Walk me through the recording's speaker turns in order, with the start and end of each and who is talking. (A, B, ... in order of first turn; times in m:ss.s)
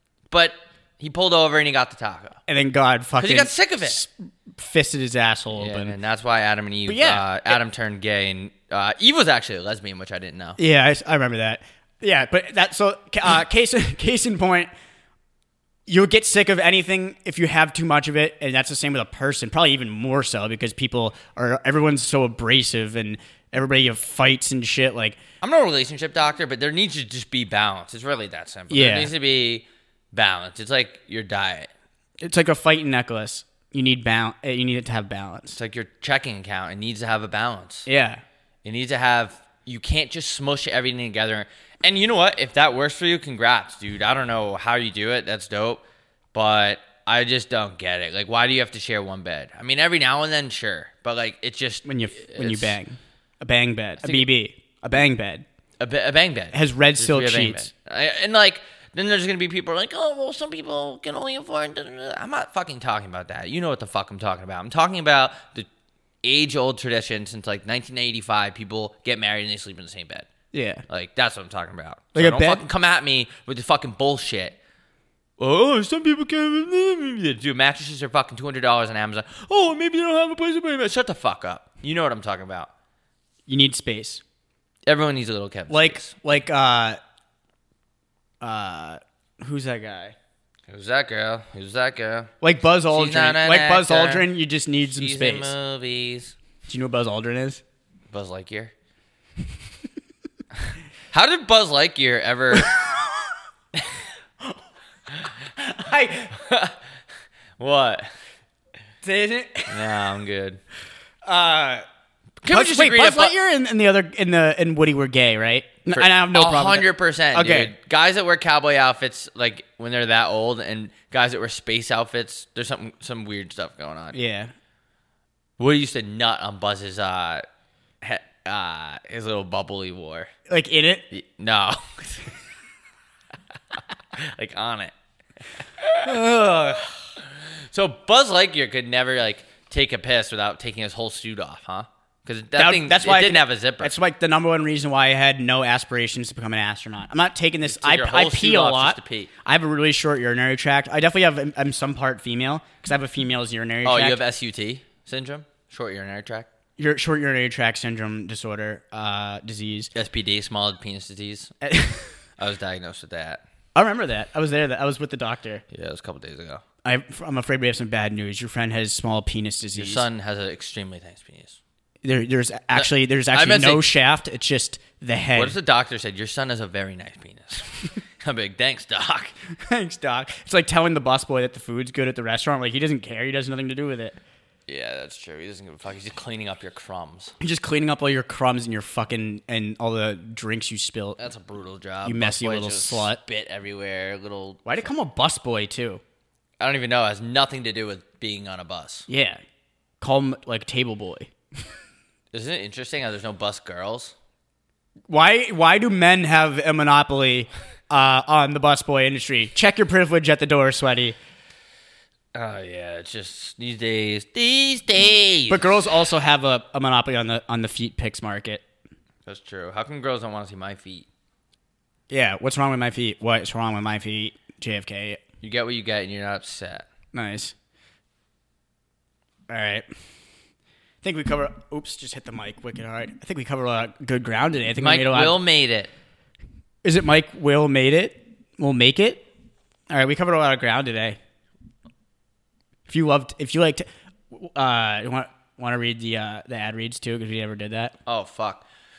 0:00.3-0:02.4 A
0:02.5-0:05.9 B
0:03.2-0:04.0 A
0:05.5-0:10.6 A
0:06.9-0:07.6 B
0:10.6-0:14.7 B
0:15.9-0:25.2 B
0:25.4-0:31.7 A
0:28.7-0:29.1 B
0:32.2-0:35.6 B
0:35.6-0:37.9 A
0:37.9-0:38.2 B
0:38.6-0:45.8 A
0:46.3-0:52.8 A
0:51.8-0:55.4 B
0:54.0-0:54.3 A
0:55.8-1:05.7 A
0:56.5-0:57.7 B
1:06.2-1:10.3 A
1:10.5-1:10.8 B
1:10.9-1:14.6 A
1:12.2-1:12.6 B
1:15.4-1:22.7 A
1:23.5-1:24.2 B
1:24.8-1:26.1 A
1:25.7-1:27.0 B
1:28.4-1:30.2 B
1:30.7-1:32.3 A
1:32.4-1:35.5 B
1:32.9-1:34.3 A
1:34.9-1:36.4 A
1:36.7-1:37.6 B
1:38.1-1:38.7 A
1:40.6-1:42.7 A
1:45.6-1:46.3 B
1:46.3-1:46.8 A
1:47.6-1:48.1 A
1:49.0-1:49.8 B
1:49.7-1:50.6 A
1:51.2-1:51.8 B
1:52.4-1:53.4 A
1:52.5-1:57.7 B
1:55.9-2:04.2 A
2:04.1-2:04.5 B
2:05.6-2:07.4 A
2:08.0-2:10.3 A
2:10.5-2:11.0 B
2:11.1-2:12.3 A
2:14.1-2:14.9 A
2:15.8-2:16.4 A
2:16.0-2:16.8 B
2:17.2-2:23.9 A
2:22.6-2:34.2 B
2:27.6-2:29.3 A
2:33.8-2:36.5 A
2:36.8-2:39.9 B
2:40.0-2:41.5 A
2:41.6-2:42.1 B
2:42.4-2:43.4 A
2:43.8-2:45.6 B
2:45.7-2:46.6 A
2:46.8-2:50.0 B
2:49.8-2:51.6 A
2:52.0-2:55.6 B
2:52.7-2:53.9 A
2:55.3-2:59.3 A
2:59.6-3:04.2 B
3:04.7-3:07.4 A
3:07.4-3:11.2 B
3:11.2-3:14.9 A
3:12.0-3:13.2 B
3:14.6-3:16.0 B
3:16.6-3:19.1 A
3:19.1-3:19.4 B
3:20.0-3:21.3 B
3:22.3-3:24.2 A
3:25.1-3:31.2 B
3:32.3-3:35.7 A
3:35.5-3:38.6 B
3:39.3-3:41.1 A
3:42.1-3:45.2 B
3:45.4-3:46.9 A
3:47.1-3:47.5 B
3:49.5-3:49.9 B
3:51.0-3:55.4 B
3:54.8-3:55.9 A
3:56.8-3:59.3 B
3:59.9-4:01.2 B
4:02.9-4:08.0 B
4:08.1-4:08.6 A